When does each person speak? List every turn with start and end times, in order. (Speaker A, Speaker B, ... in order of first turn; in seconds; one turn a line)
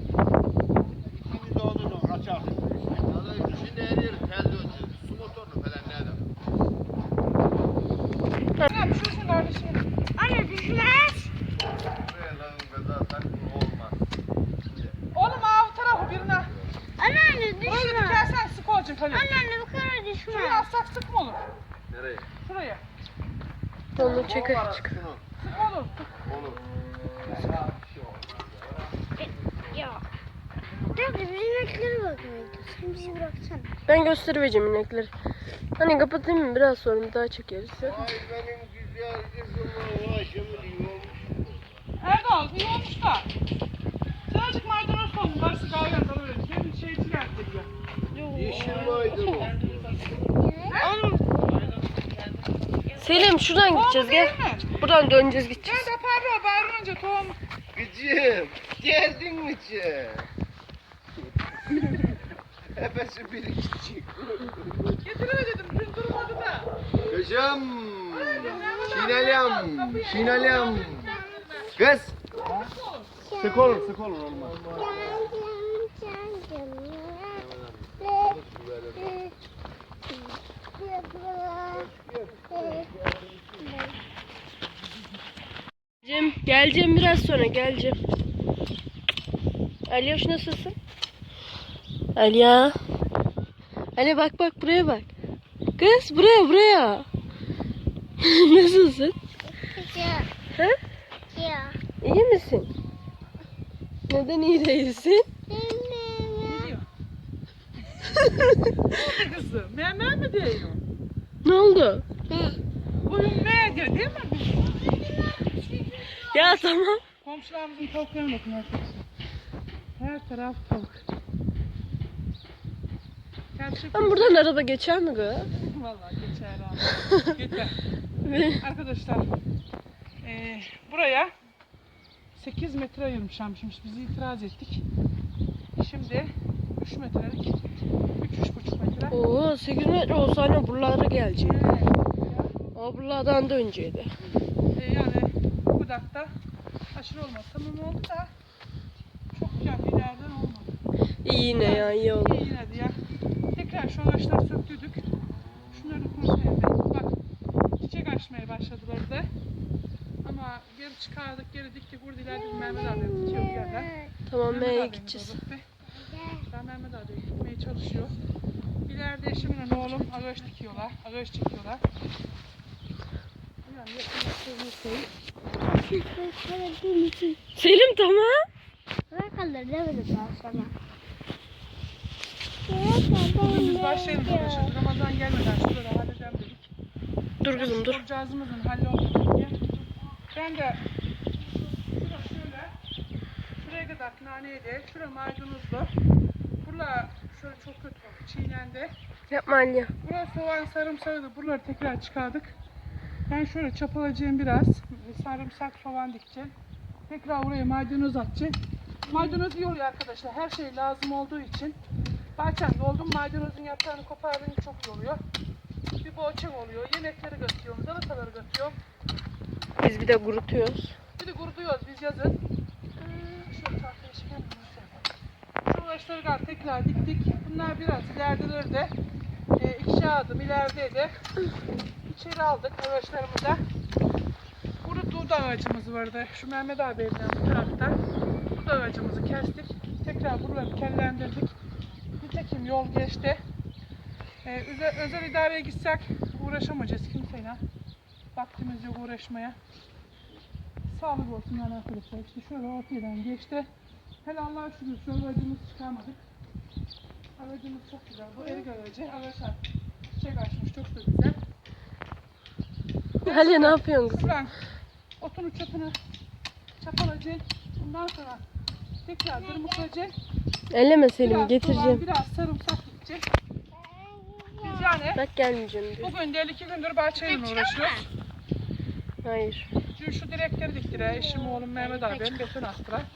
Speaker A: 1.2-3.1
Speaker B: 3.0-6.3
Speaker C: 8.6-9.8
Speaker D: 10.2-11.3
Speaker B: 11.9-14.1
Speaker B: 14.7-14.9
Speaker C: 15.1-16.5
Speaker D: 17.0-18.3
Speaker C: 17.6-19.3
Speaker D: 19.1-20.7
Speaker C: 20.3-21.4
Speaker B: 21.9-22.3
Speaker C: 22.4-22.8
Speaker E: 23.9-24.9
Speaker B: 24.0-25.2
Speaker C: 25.4-26.2
Speaker B: 26.2-26.6
Speaker B: 27.2-28.9
Speaker D: 29.2-30.0
Speaker D: 30.9-33.7
Speaker E: 33.9-35.1
Speaker E: 35.8-38.1
Speaker B: 37.8-41.6
Speaker C: 42.0-43.3
Speaker C: 44.3-47.7
Speaker E: 48.1-49.2
Speaker B: 48.3-50.0
Speaker D: 50.3-51.2
Speaker C: 50.7-51.1
Speaker E: 53.0-55.9
Speaker C: 53.7-54.7
Speaker C: 55.6-57.4
Speaker B: 57.7-60.3
Speaker B: 61.7-62.1
Speaker B: 62.7-64.9
Speaker C: 65.0-66.7
Speaker B: 67.0-71.2
Speaker C: 68.2-71.8
Speaker D: 68.4-68.7
Speaker D: 70.3-71.7
Speaker B: 71.8-72.2
Speaker C: 72.5-73.1
Speaker D: 73.3-73.8
Speaker B: 73.4-75.2
Speaker A: 73.4-74.6
Speaker D: 74.7-77.4
Speaker B: 77.3-79.2
Speaker D: 78.0-78.4
Speaker D: 79.0-79.3
Speaker D: 80.1-81.9
Speaker A: 82.0-83.4
Speaker D: 82.5-82.9
Speaker D: 83.6-84.0
Speaker E: 86.0-88.0
Speaker E: 89.9-90.8
Speaker E: 92.1-92.7
Speaker E: 94.0-95.1
Speaker E: 95.8-97.1
Speaker E: 98.2-99.2
Speaker D: 99.7-100.3
Speaker D: 101.3-101.8
Speaker E: 102.0-102.7
Speaker E: 104.1-105.3
Speaker D: 105.5-106.7
Speaker C: 106.4-106.8
Speaker E: 108.2-108.5
Speaker C: 108.9-110.8
Speaker E: 111.4-112.1
Speaker D: 112.3-112.5
Speaker C: 113.0-119.0
Speaker E: 116.3-117.0
Speaker C: 120.0-121.0
Speaker C: 123.5-124.5
Speaker E: 123.9-125.5
Speaker C: 125.6-127.7
Speaker E: 128.2-128.6
Speaker C: 128.6-129.3
Speaker C: 130.2-131.3
Speaker C: 132.3-134.8
Speaker C: 135.8-137.6
Speaker C: 138.2-139.2
Speaker E: 139.1-141.6
Speaker C: 141.4-142.5
Speaker E: 142.7-144.1
Speaker C: 144.7-146.3
Speaker C: 146.9-148.3
Speaker C: 149.3-150.8
Speaker E: 151.2-152.4
Speaker C: 151.6-153.0
Speaker C: 153.5-155.0
Speaker C: 155.7-157.1
Speaker C: 157.8-159.3
Speaker C: 160.2-163.9
Speaker D: 163.3-163.9
Speaker E: 164.3-165.4
Speaker C: 164.5-165.7
Speaker D: 166.0-166.4
Speaker C: 166.5-168.1
Speaker C: 168.9-171.8
Speaker C: 173.7-175.1
Speaker D: 175.7-177.5
Speaker E: 177.5-178.3
Speaker D: 179.1-180.7
Speaker D: 182.7-184.7
Speaker C: 183.4-186.7
Speaker E: 187.4-188.0
Speaker C: 187.5-189.6
Speaker C: 190.3-190.8
Speaker C: 191.4-192.7
Speaker C: 193.6-195.9
Speaker C: 196.6-198.9
Speaker E: 199.3-199.9
Speaker C: 200.0-202.6
Speaker C: 203.3-206.5
Speaker C: 207.1-211.8
Speaker C: 212.3-215.2
Speaker C: 216.0-218.8
Speaker E: 219.8-220.9
Speaker C: 221.2-222.4
Speaker C: 223.4-225.0
Speaker C: 225.7-228.9
Speaker C: 229.6-231.3
Speaker C: 232.1-233.6
Speaker C: 234.8-238.0
Speaker C: 238.5-241.6
Speaker C: 242.2-243.4
Speaker C: 244.4-247.6
Speaker C: 248.3-249.6
Speaker C: 250.9-253.7
Speaker C: 254.2-256.2
Speaker C: 257.4-259.6
Speaker C: 260.1-261.4
Speaker C: 263.2-264.6
Speaker E: 263.2-264.3
Speaker C: 265.2-265.9
Speaker C: 266.8-268.4
Speaker C: 269.0-270.1
Speaker D: 269.5-269.8
Speaker E: 270.7-272.0
Speaker C: 271.2-273.2
Speaker D: 273.8-275.1
Speaker C: 274.6-275.2
Speaker E: 275.1-276.1
Speaker C: 276.0-278.0
Speaker D: 277.2-278.0
Speaker E: 279.2-279.7
Speaker C: 279.9-283.1
Speaker D: 280.9-282.4